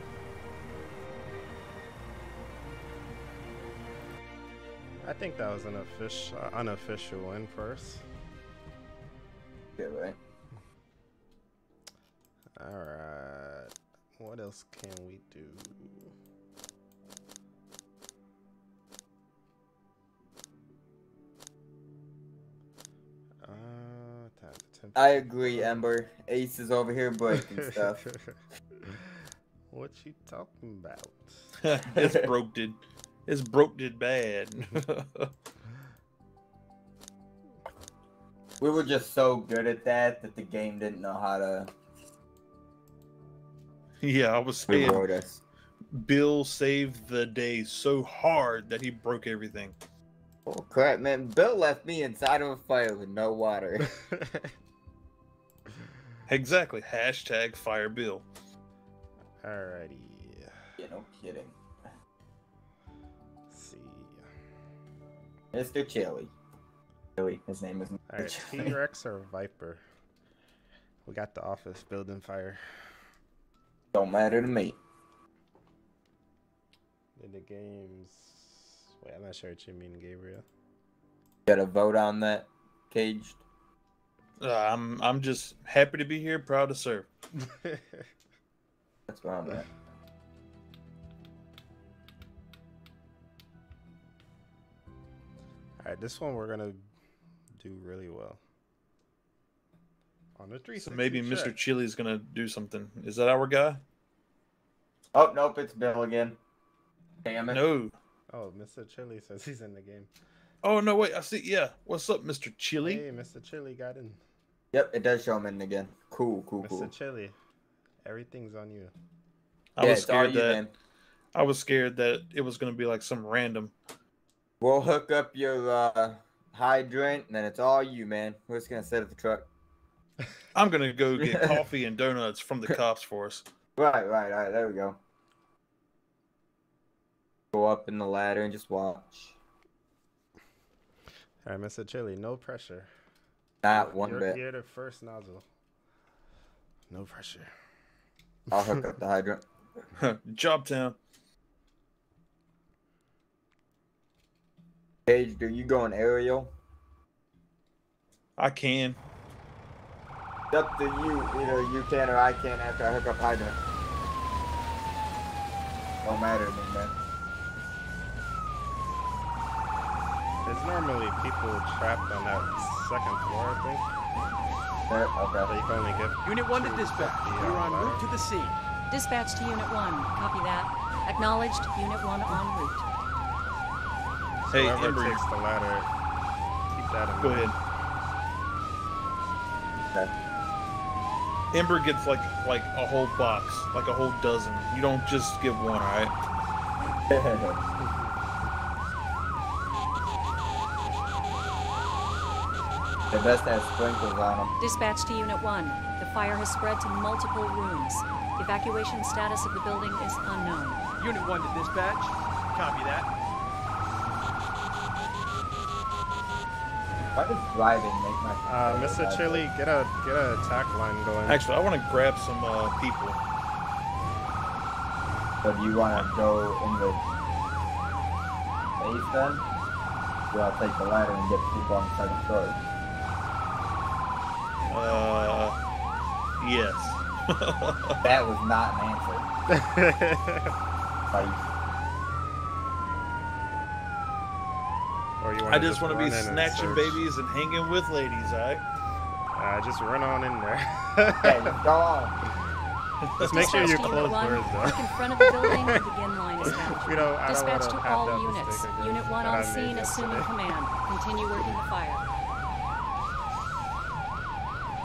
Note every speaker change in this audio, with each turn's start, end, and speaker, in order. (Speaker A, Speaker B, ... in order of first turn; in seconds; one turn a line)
Speaker A: 5.0-8.0
Speaker B: 9.8-10.2
Speaker A: 12.6-16.1
Speaker A: 23.4-25.9
Speaker B: 24.9-28.0
Speaker A: 27.6-31.4
Speaker C: 31.6-35.3
Speaker B: 31.9-32.3
Speaker B: 38.6-41.7
Speaker C: 44.0-45.0
Speaker B: 44.7-45.4
Speaker C: 45.9-49.8
Speaker B: 50.5-53.9
Speaker A: 54.0-54.5
Speaker C: 56.3-58.2
Speaker A: 59.4-60.6
Speaker B: 60.8-61.6
Speaker A: 63.5-64.3
Speaker B: 65.5-66.3
Speaker B: 67.2-68.8
Speaker A: 68.1-69.8
Speaker A: 71.1-72.6
Speaker B: 73.9-74.8
Speaker A: 77.2-80.5
Speaker B: 81.5-83.4
Speaker C: 84.4-87.1
Speaker A: 87.6-88.0
Speaker B: 89.1-89.7
Speaker A: 95.8-96.8
Speaker A: 97.6-98.4
Speaker A: 100.4-101.5
Speaker C: 100.8-103.8
Speaker B: 105.1-106.4
Speaker B: 107.2-107.6
Speaker C: 107.5-107.9
Speaker A: 108.3-110.1
Speaker C: 110.6-113.0
Speaker A: 112.8-114.2
Speaker B: 114.7-116.9
Speaker A: 116.6-117.4
Speaker A: 118.0-118.9
Speaker C: 119.8-120.6
Speaker B: 119.8-120.7
Speaker C: 121.3-123.7
Speaker B: 124.6-129.5
Speaker C: 130.6-133.4
Speaker B: 131.2-131.6
Speaker B: 133.8-135.0
Speaker B: 137.5-139.4
Speaker A: 141.4-142.9
Speaker B: 143.6-144.4
Speaker A: 143.7-145.4
Speaker A: 146.9-147.5
Speaker B: 148.5-149.4
Speaker C: 150.0-150.9
Speaker B: 155.1-156.5
Speaker C: 158.4-159.0
Speaker B: 160.5-163.6
Speaker B: 166.0-166.9
Speaker A: 170.4-173.8
Speaker B: 174.9-175.6
Speaker A: 175.5-178.0
Speaker D: 176.2-178.6
Speaker E: 178.9-182.9
Speaker A: 184.5-185.9
Speaker C: 184.5-185.2
Speaker A: 186.7-187.6
Speaker C: 187.2-187.6
Speaker C: 191.5-196.1
Speaker B: 197.1-197.6
Speaker B: 203.1-204.5
Speaker E: 204.6-210.8
Speaker D: 211.0-213.1
Speaker B: 217.2-219.4
Speaker A: 218.5-221.4
Speaker C: 221.3-223.2
Speaker B: 225.4-227.0
Speaker B: 228.8-229.4
Speaker B: 230.3-232.6
Speaker C: 234.7-235.6
Speaker C: 236.4-238.0
Speaker B: 238.0-239.3
Speaker A: 239.5-240.5
Speaker B: 241.1-241.5
Speaker A: 245.2-247.0
Speaker C: 245.5-248.6
Speaker A: 249.3-251.6
Speaker B: 251.2-252.2
Speaker C: 253.0-254.1
Speaker A: 253.2-255.8
Speaker E: 253.2-262.0
Speaker A: 256.4-260.3